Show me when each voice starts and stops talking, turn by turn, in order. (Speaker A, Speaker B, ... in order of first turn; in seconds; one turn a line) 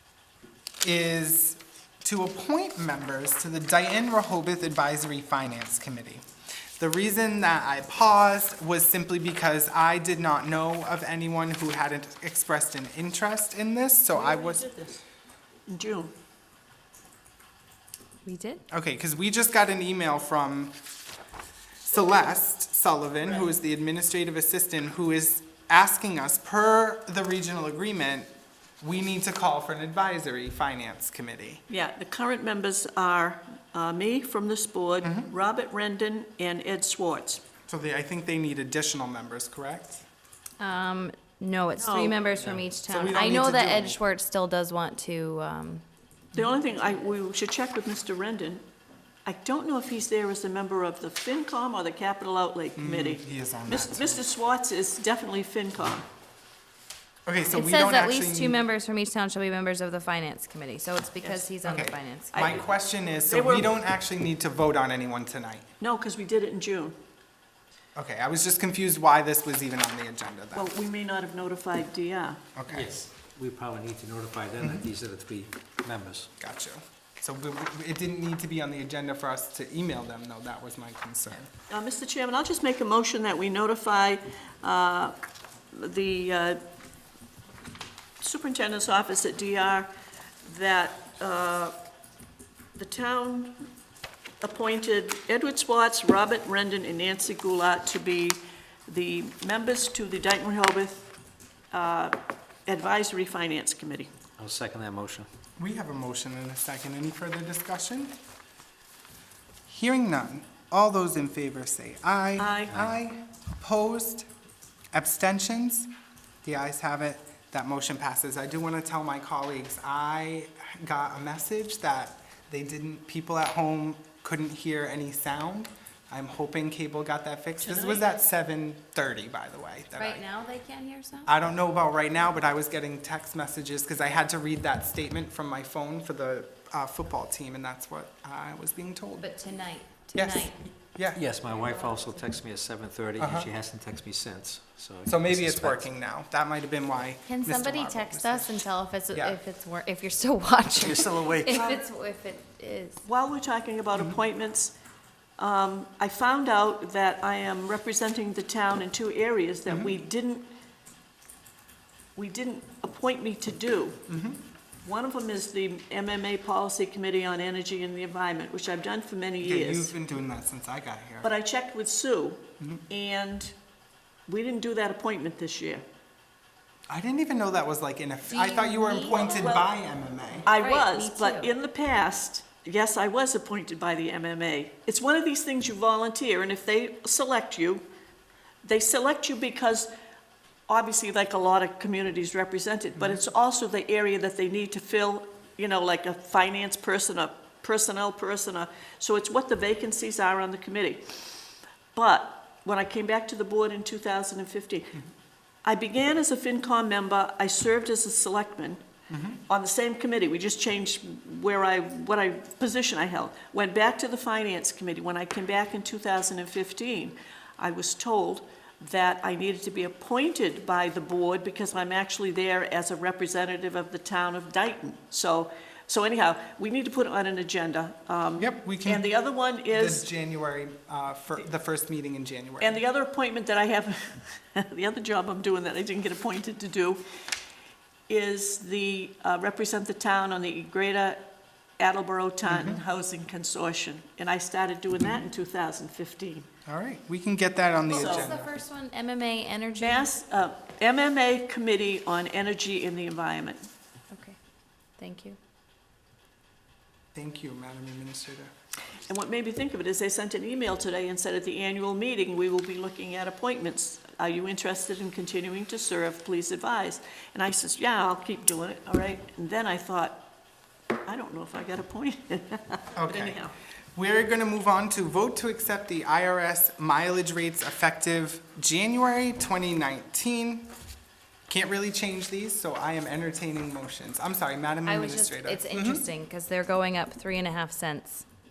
Speaker A: 0.8-6.2
Speaker A: 6.8-14.6
Speaker B: 14.1-15.0
Speaker B: 15.7-16.1
Speaker C: 18.2-18.6
Speaker A: 18.7-20.7
Speaker A: 21.8-28.3
Speaker B: 23.2-23.5
Speaker A: 28.8-31.6
Speaker B: 31.7-37.4
Speaker A: 35.0-35.3
Speaker A: 37.6-40.0
Speaker C: 40.6-45.8
Speaker B: 41.8-42.2
Speaker D: 42.4-42.7
Speaker A: 42.9-44.0
Speaker B: 46.4-48.6
Speaker B: 49.3-56.1
Speaker A: 52.8-54.2
Speaker A: 57.3-58.6
Speaker C: 57.5-62.5
Speaker A: 61.6-65.7
Speaker B: 62.3-62.7
Speaker B: 63.2-63.7
Speaker B: 65.8-66.9
Speaker A: 68.0-70.7
Speaker B: 70.5-72.4
Speaker A: 72.6-72.9
Speaker D: 72.7-76.3
Speaker A: 76.4-81.5
Speaker B: 81.7-85.1
Speaker B: 85.7-86.6
Speaker B: 88.2-89.9
Speaker B: 90.5-91.7
Speaker B: 92.8-93.5
Speaker B: 94.4-101.1
Speaker B: 101.7-102.2
Speaker B: 102.7-104.1
Speaker D: 104.4-105.3
Speaker A: 105.6-108.2
Speaker A: 109.7-114.3
Speaker B: 112.4-112.8
Speaker D: 112.7-113.0
Speaker A: 114.9-115.9
Speaker A: 116.4-130.2
Speaker B: 127.6-128.1
Speaker C: 129.9-131.3
Speaker A: 131.3-139.3
Speaker C: 139.2-140.7
Speaker A: 140.2-141.2
Speaker D: 141.1-145.8
Speaker C: 141.5-142.3
Speaker A: 143.2-143.5
Speaker A: 145.1-149.4
Speaker C: 147.2-153.0
Speaker D: 150.8-151.6
Speaker B: 151.5-151.8
Speaker B: 153.1-154.7
Speaker A: 153.9-154.2
Speaker B: 155.4-160.5
Speaker A: 159.7-160.0
Speaker B: 162.2-164.0
Speaker A: 164.1-164.4
Speaker B: 164.8-169.9
Speaker A: 169.4-171.3
Speaker B: 171.2-173.5
Speaker B: 174.3-175.8
Speaker A: 176.9-180.5
Speaker C: 178.3-179.6
Speaker B: 179.0-179.7
Speaker B: 180.4-187.8
Speaker C: 180.5-181.5
Speaker B: 188.6-189.9
Speaker B: 190.7-204.9
Speaker B: 205.7-208.8
Speaker A: 209.1-209.4
Speaker B: 209.5-230.1
Speaker A: 228.4-229.1
Speaker A: 229.7-232.8
Speaker B: 232.6-237.0
Speaker B: 238.1-241.2
Speaker B: 241.8-246.5
Speaker A: 242.5-242.8
Speaker A: 246.7-248.5
Speaker C: 247.9-250.1
Speaker B: 247.9-248.3
Speaker B: 249.8-253.6
Speaker C: 254.1-254.4
Speaker C: 255.0-255.4
Speaker A: 257.1-258.5
Speaker B: 259.1-270.2
Speaker B: 271.1-273.5
Speaker A: 273.0-273.4
Speaker A: 274.0-280.7
Speaker A: 281.5-286.1
Speaker C: 284.9-288.3